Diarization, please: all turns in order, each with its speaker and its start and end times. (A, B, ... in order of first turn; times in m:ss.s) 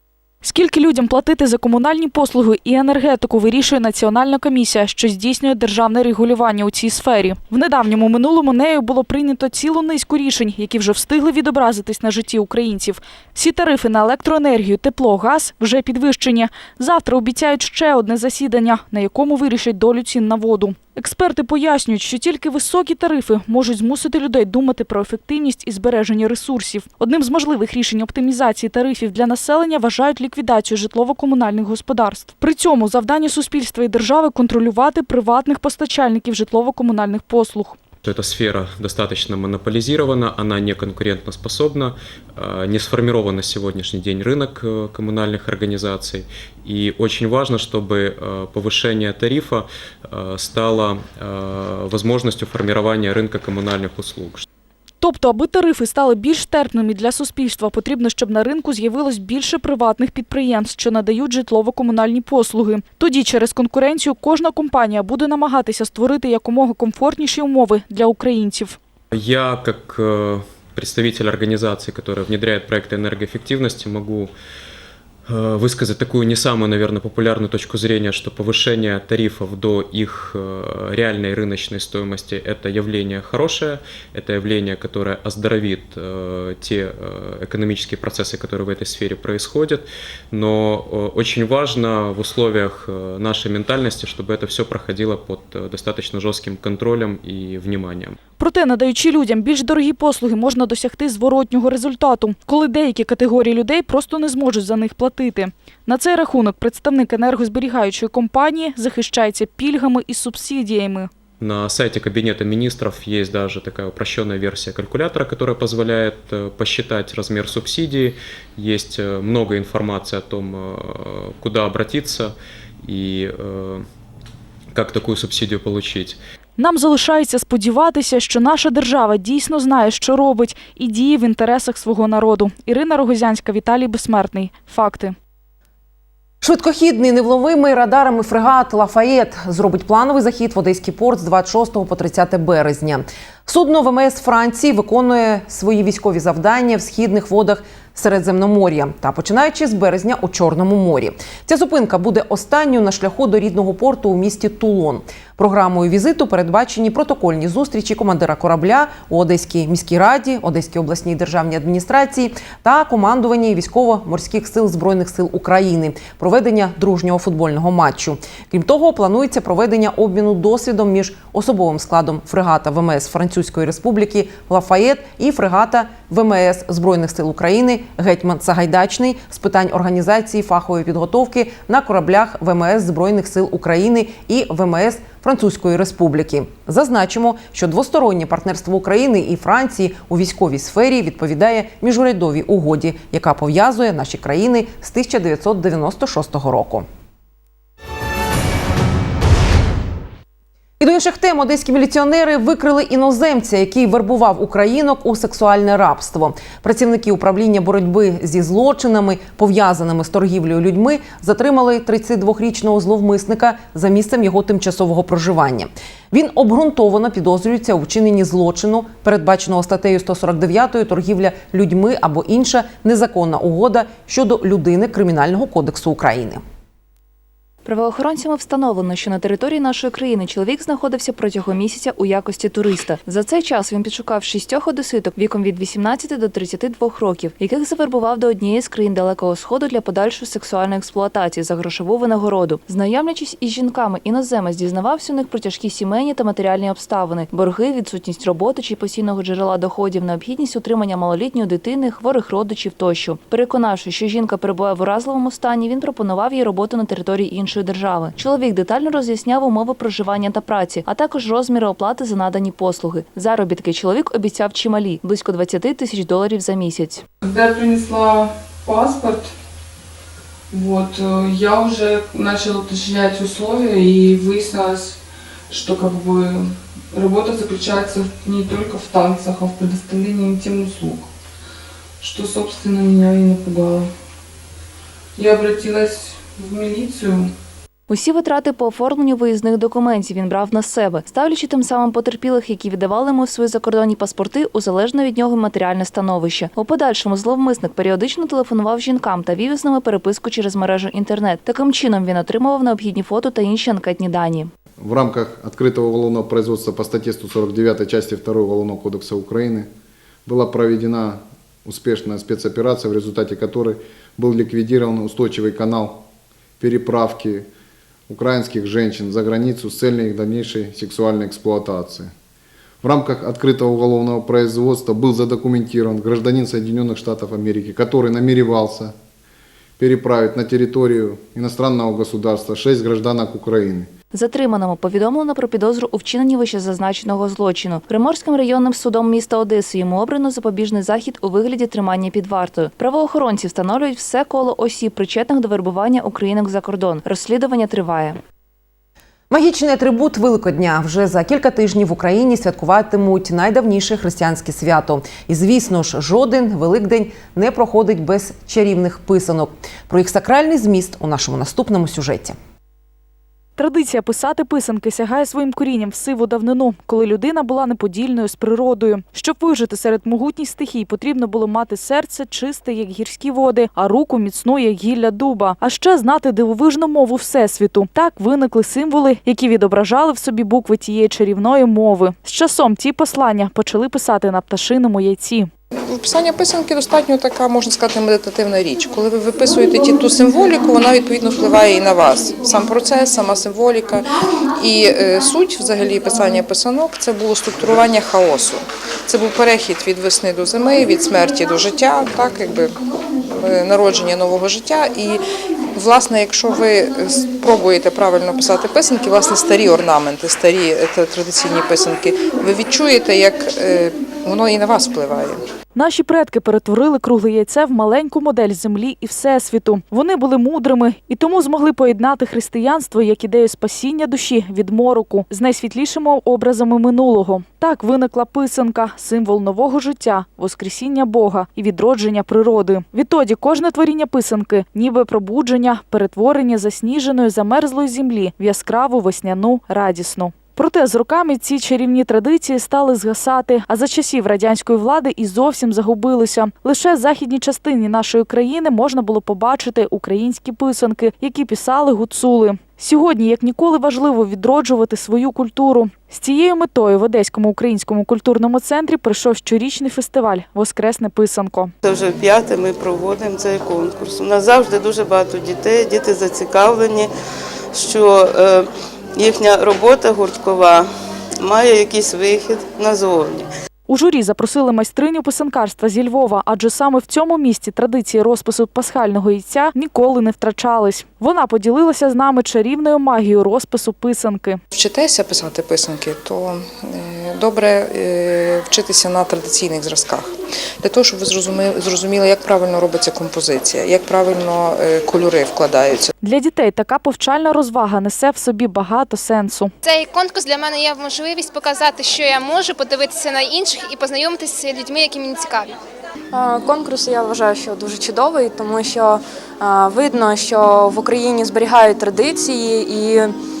0:00.4-0:37.8 A
0:38.0-0:54.4 B
0:55.0-1:08.8 A
1:09.1-1:14.3 B
1:15.2-1:38.2 B
1:38.4-1:51.1 A
1:51.4-2:03.8 B
2:04.7-2:06.2 B
2:06.6-2:15.1 A
2:16.4-3:16.8 C
3:20.8-3:46.4 C
3:47.6-4:27.0 D
4:27.2-4:29.3 E
4:30.5-4:35.0 E
4:35.5-4:41.1 E
4:42.0-4:43.9 E
4:45.2-4:47.3 E
4:47.9-5:04.5 D
5:04.8-5:09.7 F
5:10.2-5:16.0 F
5:16.6-5:17.5 F
5:18.1-5:22.1 F
5:22.8-5:28.9 F
5:29.8-5:33.9 F
5:34.1-5:48.2 D
5:49.3-6:02.4 C
6:03.6-6:25.5 A
6:25.9-6:42.7 G
6:43.3-6:45.2 G
6:45.7-6:55.4 G
6:55.8-7:41.7 A
7:41.8-7:47.1 H
7:47.7-7:50.9 H
7:51.4-7:53.5 H
7:53.9-8:04.6 A
8:04.7-8:16.1 G
8:16.2-8:19.7 A
8:19.8-8:25.8 I
8:26.3-8:33.3 J